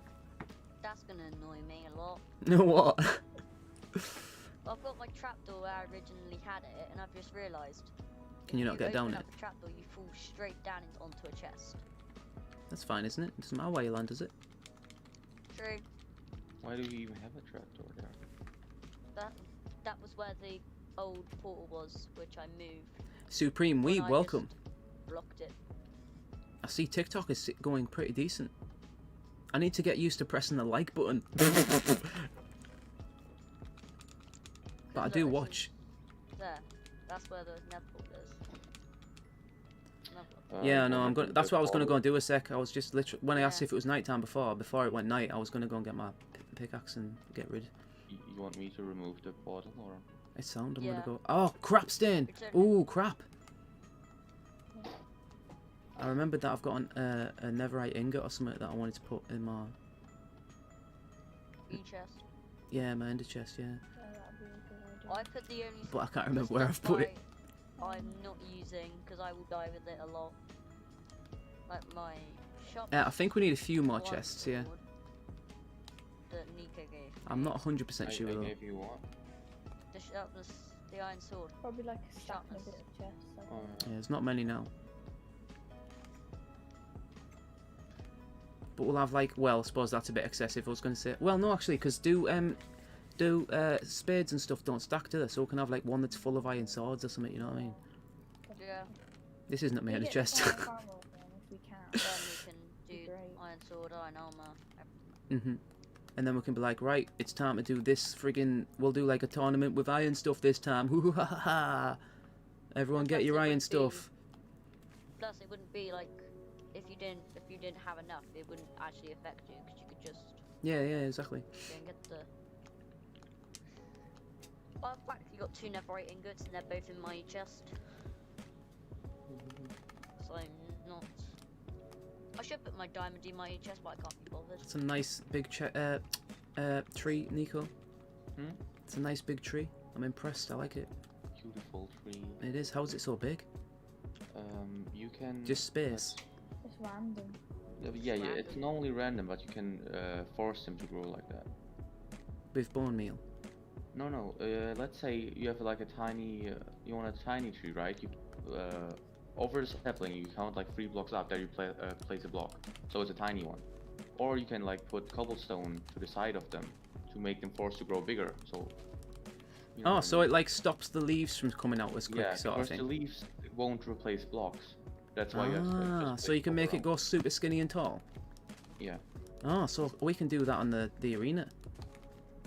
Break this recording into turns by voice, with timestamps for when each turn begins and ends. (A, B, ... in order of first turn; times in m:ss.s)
0:00.8-0:02.2 A
0:02.4-0:03.2 B
0:04.6-0:07.9 A
0:08.4-0:11.8 A
0:08.5-0:09.2 B
0:12.7-0:14.3 B
0:15.5-0:15.8 A
0:16.6-0:18.2 C
0:19.1-0:22.9 A
0:23.3-0:24.5 B
0:23.8-0:24.4 A
0:25.1-0:25.5 A
0:26.6-0:28.5 B
0:29.5-0:32.3 B
0:34.9-0:35.7 A
0:34.9-0:35.7 B
0:36.4-0:38.4 A
0:40.1-0:40.5 A
0:40.5-0:42.0 C
0:40.6-0:47.7 B
0:43.3-0:43.7 A
0:48.1-0:50.0 C
0:50.4-0:53.2 B
0:50.8-0:51.1 A
0:52.3-0:52.8 A
0:56.0-0:59.7 B
1:01.7-1:02.2 A
1:02.7-1:03.8 B
1:04.0-1:05.3 D
1:05.1-1:07.2 A
1:05.9-1:07.1 B
1:07.8-1:08.2 D
1:07.8-1:10.4 A
1:11.7-1:13.3 A
1:12.9-1:14.7 B
1:13.9-1:14.8 A
1:16.3-1:17.6 A
1:17.2-1:18.5 B
1:18.0-1:19.0 C
1:19.9-1:21.6 A
1:21.6-1:23.8 D
1:22.1-1:22.8 A
1:23.5-1:23.9 C
1:23.8-1:24.7 B
1:28.8-1:32.6 B
1:33.2-1:37.8 B
1:37.4-1:37.8 D
1:38.5-1:38.9 D
1:38.6-1:38.9 A
1:39.5-1:40.7 B
1:39.8-1:42.1 D
1:42.0-1:45.1 A
1:42.9-1:43.4 D
1:45.3-1:45.6 B
1:46.2-1:52.0 B
1:52.7-1:54.1 B
1:52.9-1:54.1 A
1:55.2-2:00.4 A
2:00.6-2:01.5 B
2:01.6-2:02.3 A
2:04.8-2:07.7 A
2:09.3-2:09.8 C
2:10.2-2:11.3 A
2:12.4-2:14.7 A
2:14.6-2:16.0 B
2:16.6-2:17.7 B
2:18.4-2:18.6 C
2:18.9-2:20.9 B
2:21.4-2:22.4 C
2:22.4-2:23.4 B
2:24.3-2:26.2 C
2:25.4-2:26.2 B
2:26.6-2:27.4 D
2:27.8-2:31.5 C
2:28.0-2:28.7 A
2:32.5-2:33.2 B
2:33.9-2:48.8 C
2:49.7-2:50.3 C
2:49.8-2:52.8 B
2:52.1-2:56.9 C
2:55.3-2:58.0 B
2:59.4-3:01.5 B